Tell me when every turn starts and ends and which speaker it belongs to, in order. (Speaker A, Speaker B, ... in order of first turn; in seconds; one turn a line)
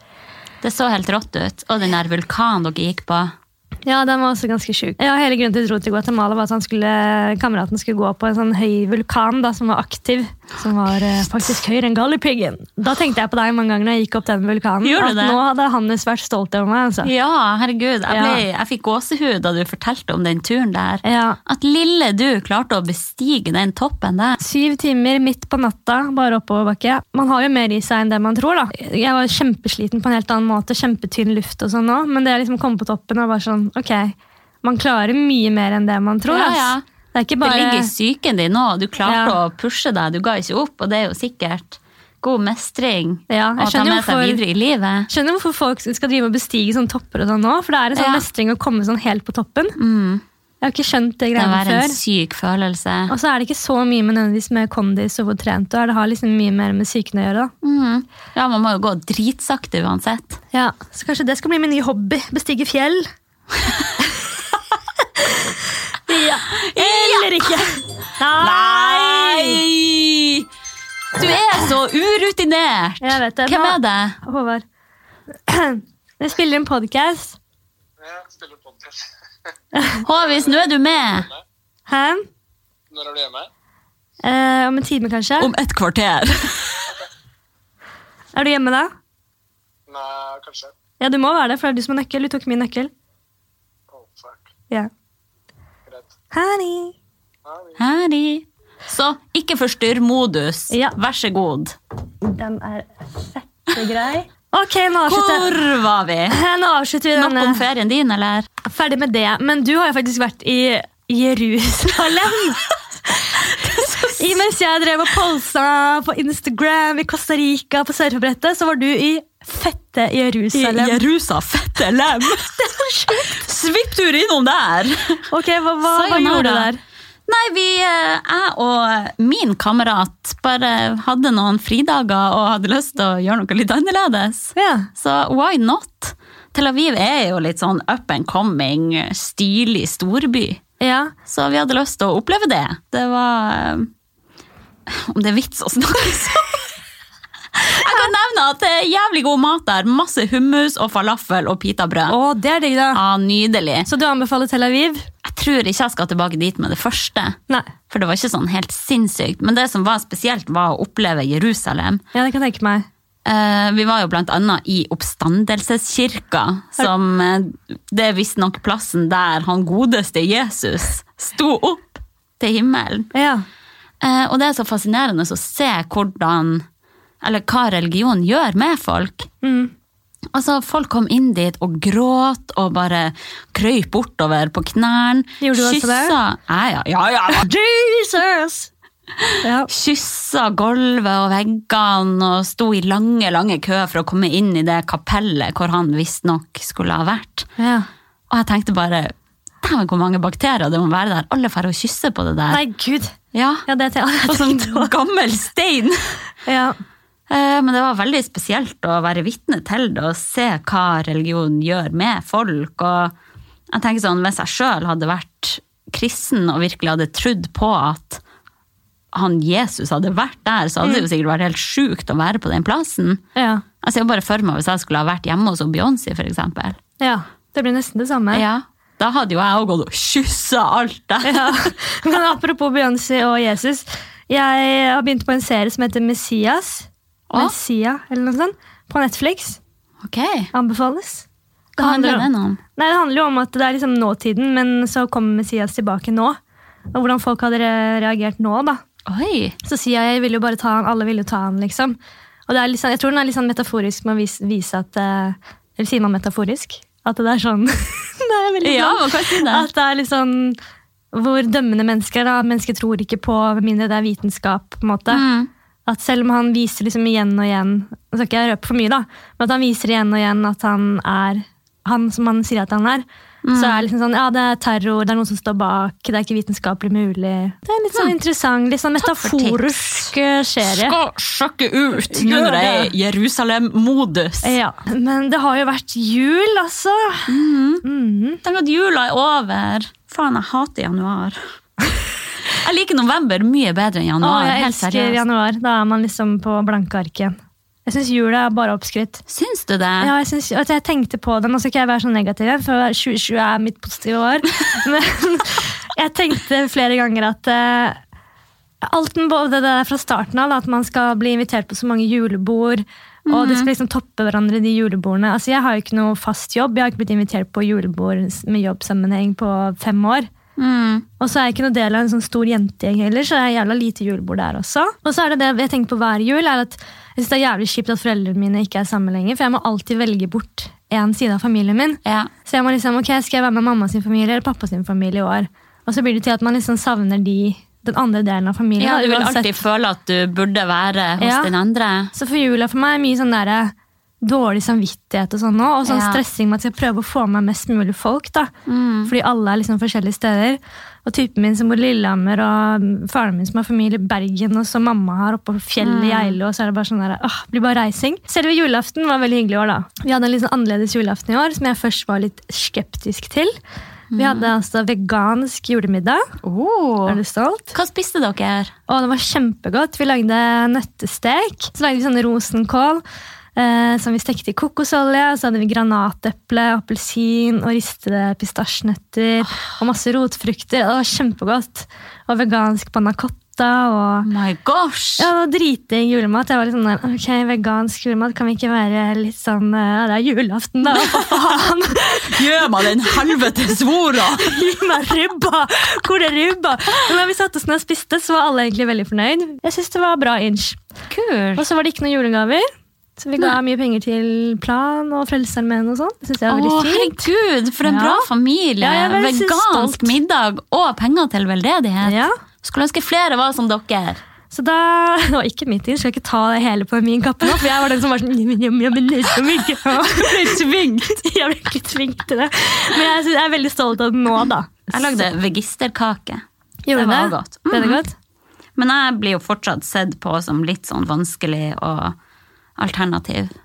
Speaker A: 0.6-3.3
Speaker B: 3.9-17.1
Speaker A: 14.8-15.4
Speaker A: 17.0-24.4
Speaker B: 18.1-18.4
Speaker B: 21.0-21.4
Speaker B: 24.4-37.9
Speaker A: 36.3-36.8
Speaker A: 37.4-45.1
Speaker B: 39.0-39.4
Speaker B: 43.3-44.4
Speaker B: 45.1-49.8
Speaker A: 47.9-48.2
Speaker A: 49.8-50.2
Speaker B: 50.6-52.0
Speaker A: 51.3-53.1
Speaker B: 53.1-57.5
Speaker A: 57.6-60.4
Speaker B: 60.5-63.1
Speaker B: 65.2-65.5
Speaker B: 66.0-69.6
Speaker A: 66.5-67.7
Speaker A: 68.3-70.5
Speaker A: 71.1-74.2
Speaker B: 73.0-74.6
Speaker B: 75.5-77.4
Speaker C: 78.0-79.0
Speaker B: 79.7-80.0
Speaker C: 79.9-81.4
Speaker A: 80.0-81.3
Speaker B: 81.9-82.2
Speaker C: 82.9-83.5
Speaker B: 84.2-85.5
Speaker A: 85.4-86.9
Speaker B: 88.3-88.9
Speaker C: 89.9-90.7
Speaker B: 91.0-92.9
Speaker C: 93.9-94.5
Speaker B: 96.3-96.9
Speaker C: 97.4-97.8
Speaker A: 97.8-101.8
Speaker B: 100.7-101.0
Speaker B: 102.2-105.6
Speaker A: 105.0-106.4
Speaker B: 106.3-107.6
Speaker A: 107.1-108.5
Speaker B: 108.6-121.0
Speaker A: 113.4-114.4
Speaker A: 120.5-122.6
Speaker B: 122.4-123.4
Speaker A: 123.1-125.3
Speaker B: 125.3-126.8
Speaker A: 125.8-126.7
Speaker A: 127.3-140.6
Speaker B: 134.5-134.9
Speaker B: 140.8-141.1
Speaker A: 141.2-143.9
Speaker A: 144.9-146.7
Speaker A: 147.5-152.2
Speaker B: 152.1-153.0
Speaker A: 152.9-153.9
Speaker B: 153.8-155.1
Speaker A: 155.2-157.4
Speaker A: 157.9-162.0
Speaker B: 162.1-162.9
Speaker A: 163.2-173.1
Speaker B: 173.1-173.4
Speaker A: 174.0-176.7
Speaker A: 177.2-179.3
Speaker B: 179.4-179.7
Speaker A: 180.3-187.5
Speaker B: 185.4-186.1
Speaker B: 187.3-188.7
Speaker A: 189.2-197.5
Speaker B: 189.4-189.7
Speaker B: 197.6-197.9
Speaker A: 198.3-202.6
Speaker B: 202.5-203.1
Speaker A: 203.3-203.7
Speaker B: 203.7-204.9
Speaker A: 204.2-206.1
Speaker B: 206.4-206.8
Speaker A: 207.3-213.1
Speaker A: 213.7-218.2
Speaker A: 219.1-223.2
Speaker B: 223.3-223.6
Speaker A: 223.8-226.8
Speaker B: 227.0-228.4
Speaker A: 228.3-231.7
Speaker B: 231.2-239.6
Speaker A: 237.3-237.5
Speaker A: 240.0-240.5
Speaker B: 240.5-241.2
Speaker A: 241.8-242.6
Speaker B: 241.8-246.4
Speaker B: 246.9-248.8
Speaker A: 249.1-249.6
Speaker B: 249.6-252.0
Speaker B: 252.5-260.6
Speaker A: 258.6-259.7
Speaker B: 261.1-265.2
Speaker A: 265.1-265.5
Speaker B: 265.9-280.9
Speaker A: 273.4-273.9
Speaker A: 279.0-284.6
Speaker B: 282.0-282.9
Speaker B: 284.4-287.3
Speaker A: 287.3-287.8
Speaker B: 287.8-288.4
Speaker A: 288.4-291.4
Speaker A: 292.5-295.2
Speaker B: 294.2-299.2
Speaker A: 299.3-300.1
Speaker B: 300.0-308.0
Speaker B: 308.8-320.3
Speaker A: 313.3-313.7
Speaker A: 320.6-321.1
Speaker B: 321.2-339.6
Speaker A: 332.0-332.3
Speaker A: 338.8-342.1
Speaker B: 341.2-341.5
Speaker B: 342.1-348.5
Speaker A: 345.8-346.2
Speaker A: 348.6-349.1
Speaker B: 349.1-363.5
Speaker A: 355.8-356.4
Speaker A: 364.1-364.5
Speaker B: 364.1-366.2
Speaker A: 366.4-367.2
Speaker B: 367.1-367.7
Speaker A: 367.7-368.7
Speaker B: 368.9-373.0
Speaker B: 373.6-384.3
Speaker A: 384.2-385.3
Speaker B: 385.2-393.5
Speaker A: 390.9-394.6
Speaker B: 394.3-400.8
Speaker A: 401.1-401.6
Speaker B: 401.6-402.6
Speaker B: 403.2-407.3
Speaker A: 406.5-414.2
Speaker B: 407.8-408.3
Speaker B: 408.8-410.1
Speaker B: 412.0-412.3
Speaker B: 414.5-425.2
Speaker A: 420.0-421.1
Speaker A: 424.9-428.0
Speaker B: 426.9-428.1
Speaker A: 428.8-432.1
Speaker A: 432.8-433.5